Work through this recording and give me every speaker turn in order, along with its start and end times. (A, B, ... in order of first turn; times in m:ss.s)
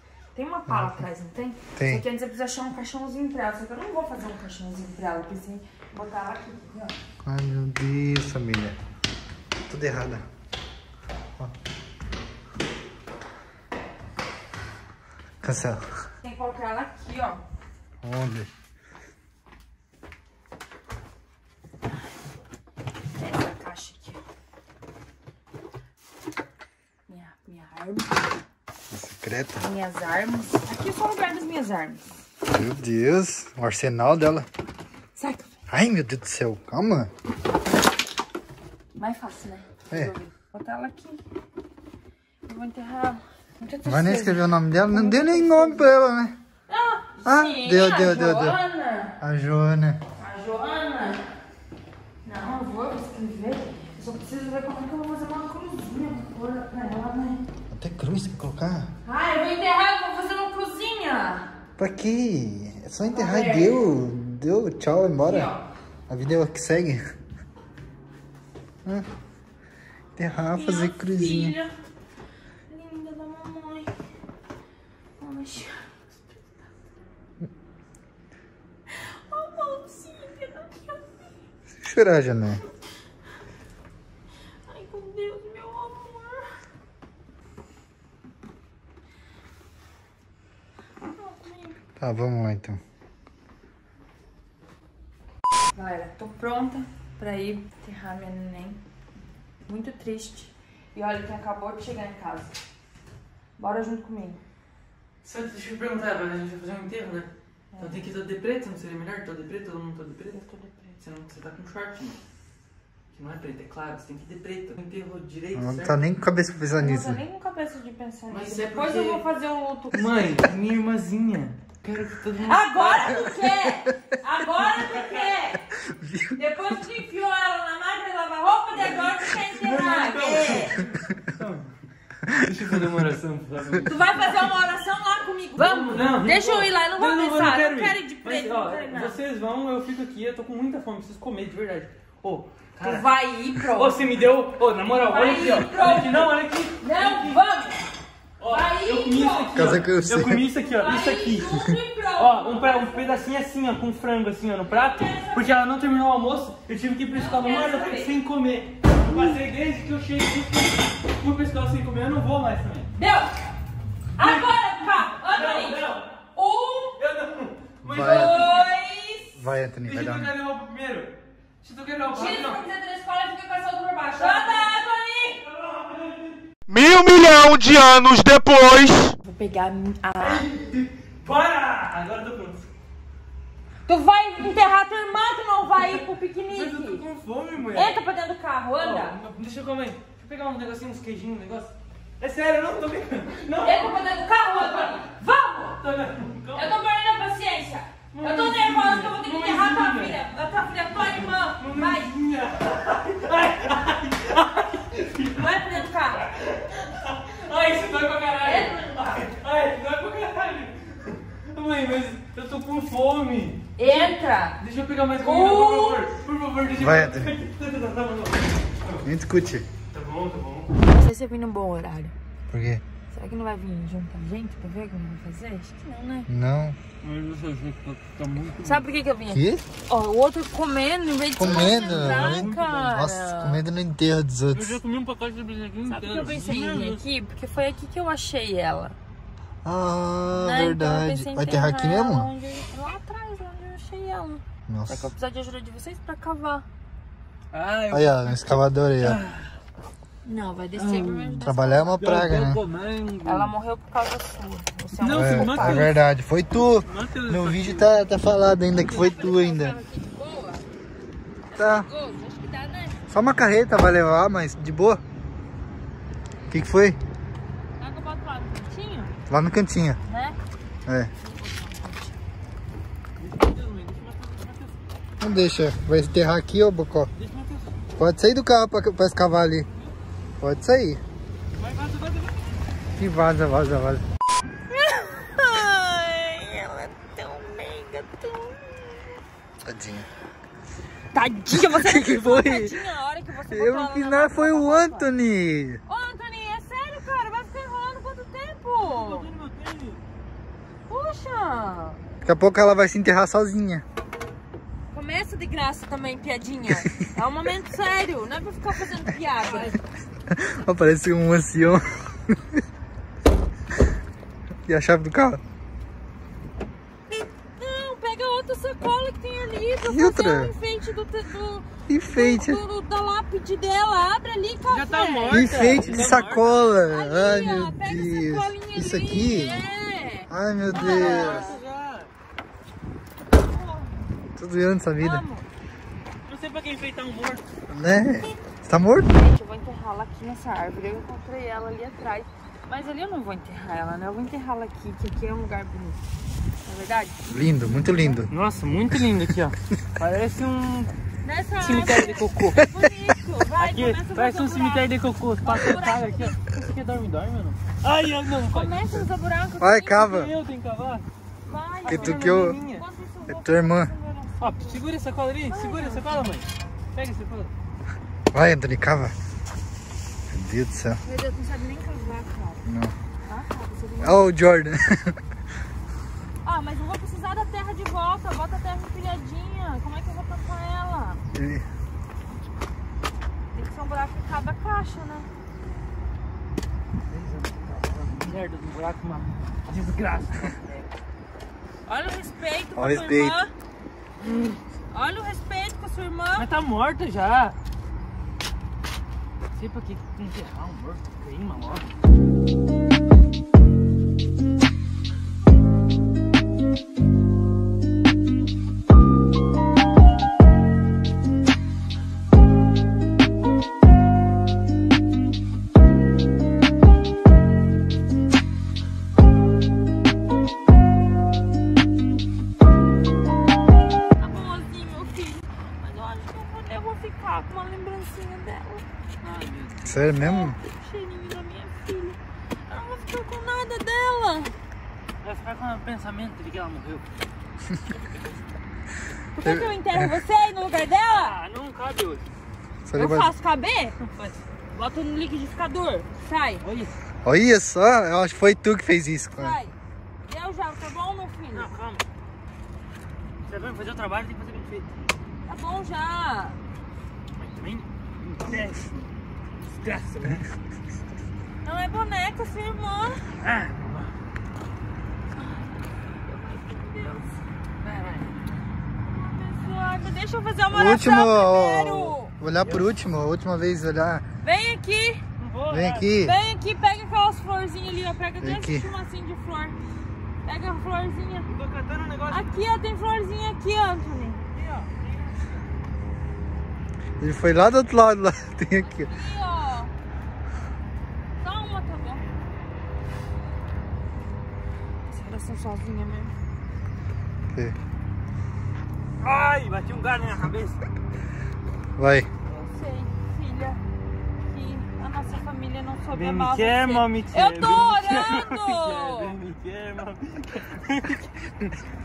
0:00.3-0:07.0 A
0:01.8-0:02.0 B
0:07.2-0:08.8 B
0:09.7-0:10.2 B
0:15.4-0:16.0 B
0:16.2-0:17.4 A
0:18.0-0:18.5 B
0:23.1-0:24.2 A
0:27.1-0:28.2 A
0:28.9-0:29.6 B
0:29.6-0:32.0 A
0:32.5-0:34.5 B
0:35.2-0:35.6 A
0:35.7-0:37.1 B
0:39.0-0:41.2 A
0:42.5-0:45.9 A
0:43.8-0:46.3 B
0:46.7-0:49.2 A
0:47.2-0:48.6 B
0:49.2-0:50.0 B
0:50.2-0:51.2 A
0:52.2-0:57.4 A
0:57.7-0:58.9 B
0:59.0-1:01.5 A
1:01.8-1:05.5 B
1:03.0-1:03.8 A
1:05.2-1:05.6 A
1:06.1-1:07.0 B
1:10.2-1:11.6 B
1:10.5-1:11.7 A
1:12.7-1:13.9 A
1:15.2-1:16.5 A
1:18.9-1:21.3 A
1:21.8-1:22.6 B
1:24.6-1:26.5 A
1:31.0-1:31.8 A
1:32.0-1:32.8 B
1:35.7-1:38.8 A
1:39.6-1:42.6 A
1:43.6-1:44.4 A
1:45.2-1:50.4 C
1:47.7-1:48.0 A
1:50.4-1:50.9 A
1:51.0-1:52.2 C
1:53.1-1:56.0 C
1:55.5-1:57.2 B
1:56.8-2:00.3 A
1:58.3-1:59.2 C
1:59.9-2:03.1 C
2:02.4-2:05.6 A
2:04.8-2:05.3 C
2:05.8-2:06.4 B
2:06.4-2:10.8 A
2:08.8-2:11.7 C
2:12.3-2:14.5 C
2:13.8-2:19.2 A
2:15.6-2:23.0 C
2:22.8-2:24.0 A
2:23.7-2:27.4 C
2:25.0-2:26.2 A
2:26.8-2:27.9 A
2:28.4-2:42.9 C
2:28.4-2:29.8 A
2:29.5-2:30.4 B
2:30.6-2:33.2 A
2:34.7-2:35.6 A
2:37.1-2:38.1 A
2:39.0-2:39.3 A
2:42.9-2:43.4 A
2:44.2-2:47.0 A
2:44.2-2:44.5 C
2:45.2-2:46.0 C
2:47.0-2:48.7 C
2:47.8-2:48.4 B
2:47.9-2:49.4 A
2:49.3-2:50.3 B
2:49.8-2:52.6 C
2:52.1-2:55.4 A
2:55.4-2:56.4 C
2:56.7-2:59.1 D
2:59.2-3:00.4 A
3:00.2-3:02.7 C
3:03.8-3:07.0 A
3:06.5-3:08.1 C
3:07.7-3:09.2 A
3:08.8-3:14.0 C
3:13.6-3:15.8 A
3:14.5-3:15.0 C
3:15.8-3:16.8 C
3:16.5-3:22.1 A
3:18.1-3:20.2 C
3:21.6-3:25.8 C
3:25.3-3:26.3 A
3:26.4-3:39.0 C
3:28.4-3:29.0 A
3:33.8-3:34.6 A
3:35.2-3:36.1 A
3:36.8-3:37.3 B
3:39.0-3:39.6 B
3:39.9-3:40.7 C
3:40.8-3:42.1 A
3:42.5-3:42.8 B
3:43.1-3:46.3 A
3:46.3-3:46.8 B
3:47.0-3:48.8 C
3:48.6-3:53.6 A
3:49.3-3:49.6 B
3:51.4-3:54.8 B
3:51.4-3:52.7 C
3:54.5-3:57.0 C
3:55.9-3:59.0 A
3:59.6-4:02.3 B
4:00.3-4:06.6 A
4:04.7-4:05.1 B
4:07.5-4:08.4 C
4:07.9-4:09.2 B
4:09.0-4:09.5 C
4:10.2-4:12.0 A
4:10.8-4:13.5 C
4:11.4-4:12.6 B
4:13.2-4:15.9 A
4:15.0-4:15.9 C
4:15.1-4:19.8 B
4:16.6-4:17.9 C
4:18.8-4:20.6 A
4:21.5-4:23.0 A
4:21.6-4:21.9 B
4:23.1-4:25.0 B
4:26.5-4:27.0 B
4:27.8-4:29.1 A
4:29.3-4:30.0 B
4:30.1-4:30.4 A
4:30.8-4:31.1 B
4:31.2-4:32.2 A
4:33.2-4:34.7 C
4:35.2-4:37.1 B
4:37.2-4:37.7 C
4:38.0-4:39.7 B
4:40.4-4:41.0 B
4:41.6-4:42.6 C
4:43.0-4:44.0 B
4:44.7-4:49.2 A
4:49.6-4:50.1 B
4:51.1-4:55.1 A
4:51.5-4:52.8 B
4:53.5-4:55.8 B
4:55.9-4:59.3 A
4:58.9-5:00.0 C
5:00.9-5:02.0 A
5:02.2-5:03.8 B
5:04.9-5:09.8 A
5:09.5-5:09.8 C
5:10.3-5:12.6 B
5:14.6-5:15.4 B
5:17.5-5:25.9 A
5:19.8-5:20.5 B
5:21.9-5:22.6 B
5:24.7-5:26.7 C
5:25.3-5:29.6 B
5:26.9-5:31.6 A
5:30.3-5:31.5 B
5:30.7-5:32.1 C
5:33.4-5:34.0 A
5:34.4-5:35.2 B
5:35.0-5:35.5 A
5:36.3-5:37.4 C
5:37.7-5:39.1 B
5:39.1-5:46.0 A
5:46.6-5:48.1 A
5:47.3-5:48.3 B
5:48.3-5:50.9 C
5:51.2-5:54.9 A
5:51.6-5:52.6 C
5:53.6-5:58.7 C
5:55.4-5:56.4 A
5:58.5-6:00.1 A
5:59.6-6:00.3 B
5:59.9-6:01.0 C
6:01.4-6:04.8 A
6:01.8-6:02.6 B
6:01.9-6:02.8 C
6:03.3-6:03.9 B
6:04.4-6:07.5 C
6:05.4-6:06.4 A
6:08.3-6:09.2 B
6:10.3-6:11.0 B
6:11.0-6:12.6 A
6:12.6-6:12.9 B
6:13.2-6:14.2 A
6:14.0-6:15.2 B
6:16.4-6:21.2 A
6:21.3-6:21.6 B
6:23.5-6:25.3 A
6:27.1-6:30.8 C
6:31.8-6:33.5 A
6:32.8-6:33.3 B
6:34.2-6:34.6 C
6:34.9-6:36.5 A
6:36.4-6:37.6 C
6:39.5-6:41.9 C
7:04.2-7:08.8 A
7:09.2-7:09.9 C
7:09.8-7:10.6 B
7:10.1-7:14.5 A
7:15.2-7:17.1 C
7:19.3-7:21.4 A
7:19.4-7:20.1 B
7:21.1-7:22.3 C
7:22.8-7:23.3 B
7:22.9-7:24.0 A
7:24.7-7:26.6 A
7:26.6-7:26.9 C
7:27.2-7:29.6 B
7:29.3-7:31.7 A
7:31.5-7:32.0 C
7:33.4-7:34.9 C
7:35.4-7:36.6 A
7:37.4-7:38.9 C
7:39.7-7:40.4 C
7:41.6-7:43.2 A
7:43.4-7:44.1 C
7:46.2-7:47.4 A
7:47.8-7:48.5 C
7:49.0-7:52.3 A
7:50.7-7:54.2 B
7:52.6-7:52.9 C
7:54.4-7:55.2 A
7:55.4-7:56.1 C
7:55.7-7:56.4 B
7:56.2-7:59.8 A
7:58.4-7:58.9 B
8:00.4-8:01.5 A
8:01.5-8:02.5 C
8:02.3-8:04.4 A
8:04.5-8:05.6 C
8:07.2-8:09.1 B
8:08.8-8:09.9 A
8:11.4-8:12.2 A
8:15.0-8:16.3 A
8:19.2-8:20.8 C
8:22.0-8:22.3 B
8:22.5-8:23.8 A
8:24.4-8:29.4 A
8:26.1-8:31.7 C